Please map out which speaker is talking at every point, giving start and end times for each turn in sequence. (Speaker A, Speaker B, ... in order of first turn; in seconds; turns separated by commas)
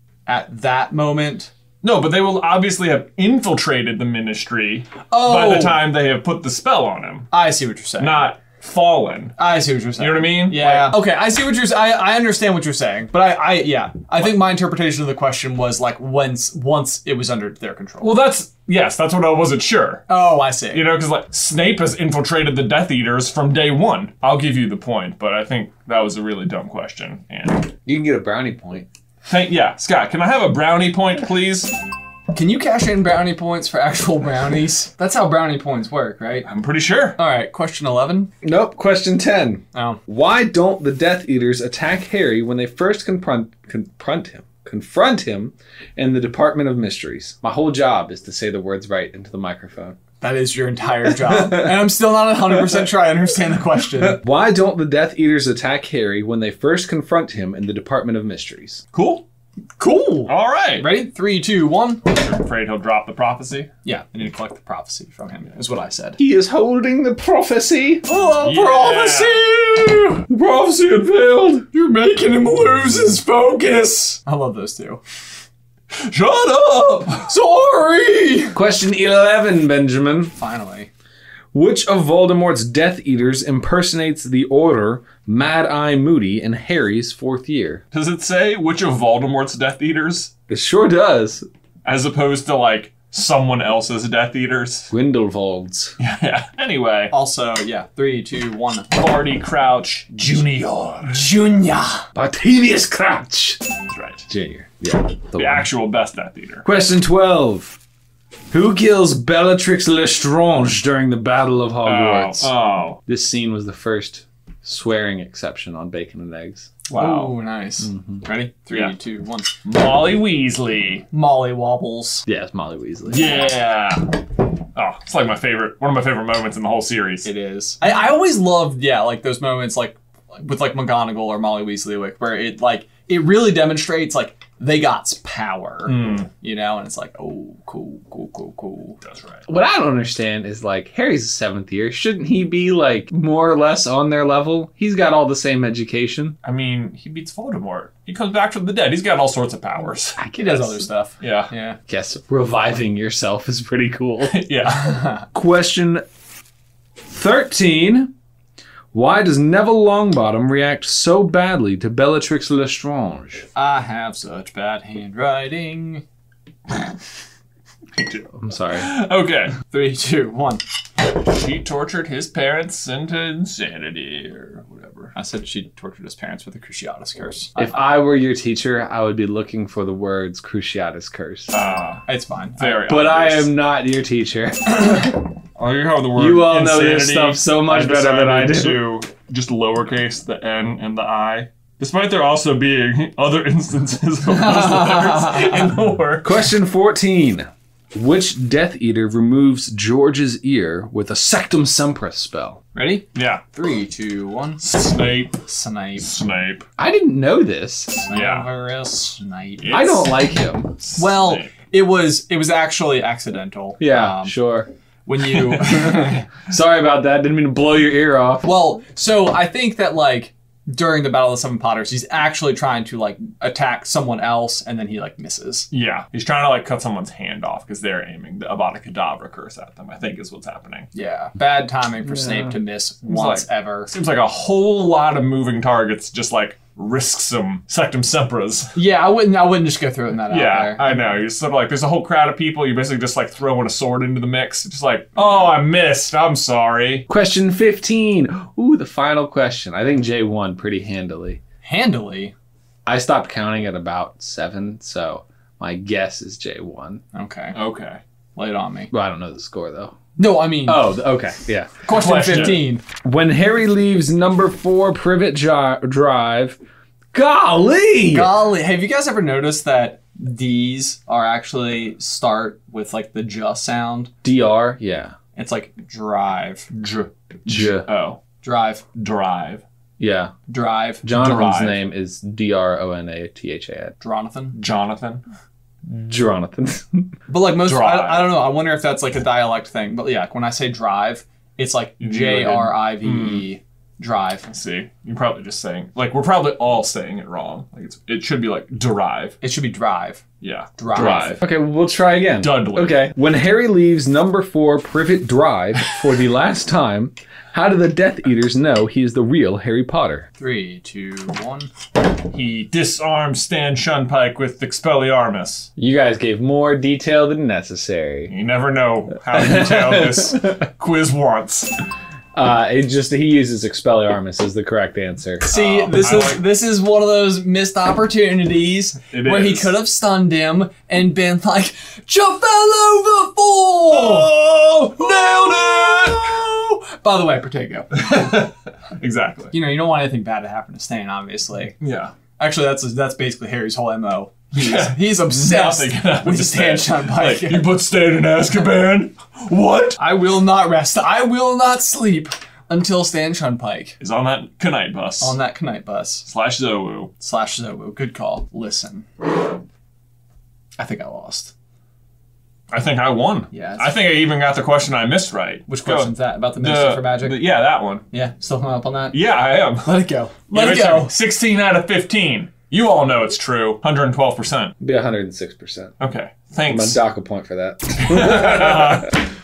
Speaker A: 0.3-1.5, Speaker B: 1.8-7.3, Speaker A: 5.1-5.9, Speaker A: 7.3-8.3, Speaker B: 8.0-9.4, Speaker A: 9.4-18.1, Speaker B: 10.0-11.0, Speaker B: 18.0-20.1, Speaker A: 20.1-20.9, Speaker B: 20.7-27.7, Speaker C: 27.9-28.9, Speaker B: 29.2-31.7, Speaker A: 32.3-36.5, Speaker B: 36.5-37.2, Speaker A: 37.2-38.3, Speaker C: 38.4-50.0, Speaker A: 39.7-40.0, Speaker A: 50.2-54.2, Speaker C: 51.3-51.8, Speaker C: 54.0-58.8, Speaker B: 58.9-59.2, Speaker A: 59.8-62.0, Speaker B: 60.3-60.9, Speaker B: 62.0-63.7, Speaker A: 63.8-66.2, Speaker C: 66.2-68.1, Speaker A: 68.0-70.3, Speaker B: 68.4-69.4, Speaker C: 70.3-71.7, Speaker A: 71.7-75.0, Speaker B: 75.9-77.3, Speaker A: 77.2-78.6, Speaker C: 78.5-80.3, Speaker A: 80.4-80.9, Speaker C: 81.5-87.8, Speaker B: 87.9-90.3, Speaker C: 90.5-91.5, Speaker B: 91.8-94.9, Speaker C: 94.9-96.0, Speaker B: 96.0-97.1, Speaker A: 97.1-99.0, Speaker B: 98.9-101.3, Speaker A: 101.1-102.1, Speaker C: 102.2-103.6, Speaker B: 103.9-104.3, Speaker C: 104.3-105.7, Speaker B: 105.3-106.7, Speaker C: 106.7-107.8, Speaker C: 108.5-112.5, Speaker B: 111.8-113.0, Speaker C: 113.0-116.8, Speaker B: 116.9-117.4, Speaker A: 116.9-119.5, Speaker C: 117.8-118.2, Speaker B: 119.7-121.1, Speaker A: 121.1-122.2, Speaker C: 122.3-123.5, Speaker B: 123.1-124.2, Speaker B: 124.8-127.3, Speaker A: 127.2-139.0, Speaker B: 135.8-136.3, Speaker B: 139.0-139.4, Speaker C: 139.5-146.4, Speaker B: 146.4-150.2, Speaker C: 150.2-150.9, Speaker A: 150.3-151.8, Speaker B: 151.2-151.5, Speaker C: 151.9-154.4, Speaker B: 154.3-155.1, Speaker A: 154.7-155.3, Speaker C: 155.3-156.0, Speaker C: 157.1-158.1, Speaker C: 158.9-163.5, Speaker A: 163.6-166.1, Speaker B: 167.9-169.6, Speaker C: 168.4-168.9, Speaker A: 169.7-170.6, Speaker B: 171.0-175.1, Speaker A: 175.2-177.7, Speaker C: 177.6-181.5, Speaker B: 181.5-182.0, Speaker A: 182.1-182.9, Speaker B: 182.6-183.5, Speaker C: 182.8-185.3, Speaker B: 185.6-196.5, Speaker C: 186.2-188.8, Speaker A: 194.3-195.6, Speaker C: 196.2-202.6, Speaker A: 202.7-204.6, Speaker B: 203.1-203.4, Speaker B: 204.6-205.4, Speaker A: 205.4-206.1, Speaker B: 206.0-206.7, Speaker C: 206.8-208.0, Speaker B: 208.0-208.5, Speaker A: 208.1-210.0, Speaker B: 209.6-210.2, Speaker C: 209.7-210.8, Speaker B: 210.8-211.5, Speaker A: 211.0-214.4, Speaker C: 213.8-214.7, Speaker A: 215.1-216.3, Speaker C: 215.4-218.5, Speaker A: 218.4-225.7, Speaker B: 225.7-230.9, Speaker A: 230.9-233.9, Speaker C: 232.1-232.5, Speaker B: 233.0-238.7, Speaker A: 238.8-241.1, Speaker B: 240.3-247.1, Speaker C: 247.1-251.4, Speaker A: 251.6-252.3, Speaker C: 252.9-257.0, Speaker A: 257.1-257.6, Speaker B: 257.5-258.0, Speaker A: 258.4-258.9, Speaker C: 258.9-260.0, Speaker A: 260.2-260.9, Speaker C: 260.6-261.8, Speaker A: 261.8-262.8, Speaker B: 261.9-262.6, Speaker C: 262.3-266.6, Speaker C: 267.1-268.4, Speaker A: 268.1-274.1, Speaker C: 274.2-275.1, Speaker A: 275.4-276.7, Speaker B: 276.7-278.2, Speaker C: 277.5-277.9, Speaker A: 278.4-278.8, Speaker B: 278.9-279.6, Speaker C: 280.0-280.3, Speaker A: 280.5-281.1, Speaker C: 281.0-283.9, Speaker B: 281.1-281.9, Speaker A: 284.0-284.6, Speaker B: 284.6-285.2, Speaker C: 285.9-287.1, Speaker A: 287.3-294.5, Speaker B: 287.6-288.4, Speaker B: 292.0-293.5, Speaker B: 294.5-299.4, Speaker A: 299.4-300.2, Speaker B: 300.4-301.4, Speaker A: 300.8-301.4, Speaker C: 300.9-310.3, Speaker B: 302.4-303.1, Speaker A: 310.4-311.7, Speaker B: 312.2-315.7, Speaker C: 315.8-318.3, Speaker B: 318.3-321.8, Speaker C: 319.4-320.3, Speaker C: 322.3-325.5, Speaker A: 325.5-338.5, Speaker B: 325.5-326.5, Speaker B: 329.1-329.8, Speaker B: 333.9-336.2, Speaker B: 338.0-339.5, Speaker A: 339.5-341.8, Speaker B: 341.8-342.1, Speaker A: 342.4-347.7, Speaker B: 344.5-350.0, Speaker A: 350.0-354.0, Speaker B: 354.0-355.4, Speaker A: 355.2-356.3, Speaker B: 356.3-357.1, Speaker A: 357.2-359.4, Speaker A: 360.8-361.5, Speaker B: 362.7-368.1, Speaker A: 363.5-364.0, Speaker A: 365.7-367.5, Speaker A: 368.1-369.2, Speaker B: 369.1-370.0, Speaker A: 369.8-371.1, Speaker B: 370.5-374.7, Speaker C: 374.8-375.9, Speaker B: 376.0-377.0, Speaker C: 376.6-379.1, Speaker B: 378.0-379.3